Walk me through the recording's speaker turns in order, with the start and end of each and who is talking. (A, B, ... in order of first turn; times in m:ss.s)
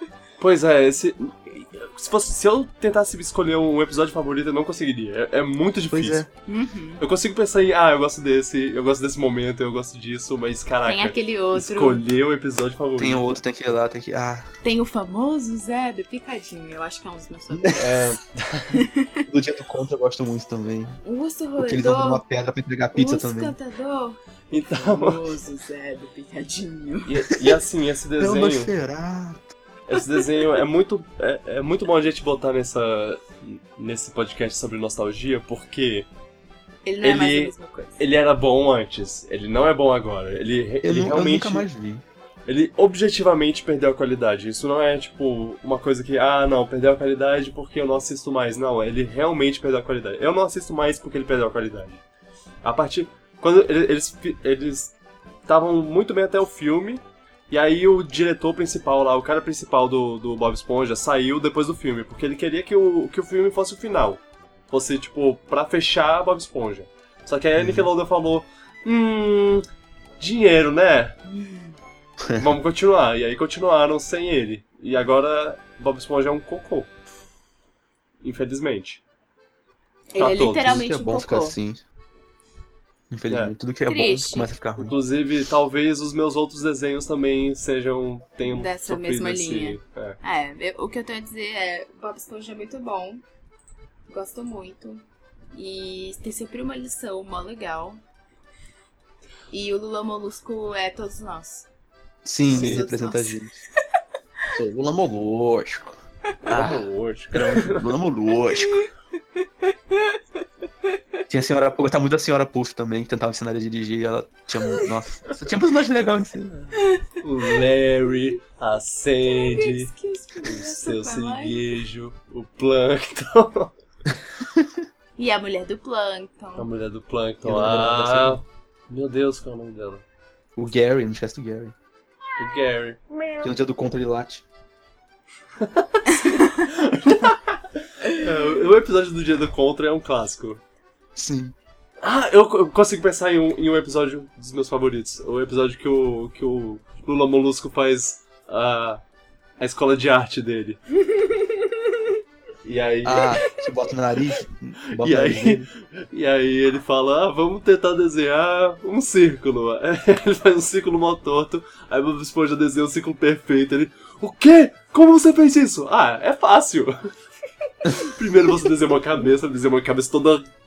0:00.4-0:06.3 A
0:05.9-0:06.3 B
0:06.5-0:07.0 C
0:07.0-0:13.3 A
0:10.9-0:12.0 C
0:13.0-0:14.5 B
0:14.6-0:17.9 C
0:17.5-0:18.2 B
0:17.8-0:18.8 A
0:18.7-0:19.2 C
0:19.3-0:21.0 B
0:21.0-0:22.2 C
0:21.6-0:23.6 B
0:22.9-0:27.4 C
0:24.5-0:25.3 A
0:27.1-0:28.7 A
0:28.2-0:29.5 B
0:29.9-0:36.1 A
0:36.8-0:38.0 C
0:37.0-0:41.7 A
0:40.8-0:42.0 B
0:42.5-0:52.0 A
0:52.6-0:55.0 A
0:55.5-1:09.6 A
1:07.6-1:07.9 B
1:10.2-1:11.2 A
1:11.3-1:11.7 C
1:12.4-1:16.9 A
1:18.2-1:19.0 A
1:20.1-1:21.6 C
1:20.2-1:20.8 A
1:20.6-1:21.8 B
1:23.1-1:25.0 B
1:23.9-1:24.5 C
1:24.8-1:30.2 A
1:28.4-1:33.2 C
1:34.1-1:38.0 C
1:39.5-1:41.7 C
1:42.2-1:43.6 B
1:42.5-1:43.4 C
1:42.5-1:42.8 A
1:44.5-1:48.8 B
1:46.4-1:48.0 A
1:48.6-1:48.9 C
1:49.9-1:50.2 C
1:51.3-1:56.6 B
1:57.2-2:03.7 A
1:59.3-2:01.6 C
2:04.4-2:04.8 B
2:05.2-2:06.7 C
2:06.6-2:10.0 A
2:07.4-2:08.4 B
2:10.6-2:11.7 B
2:12.4-2:13.0 A
2:13.4-2:14.4 B
2:15.6-2:20.6 A
2:21.2-2:21.6 B
2:22.0-2:29.0 A
2:29.6-2:30.8 A
2:31.1-2:31.8 C
2:32.6-2:33.4 A
2:33.0-2:35.7 B
2:35.0-2:47.0 A
2:47.9-2:50.4 A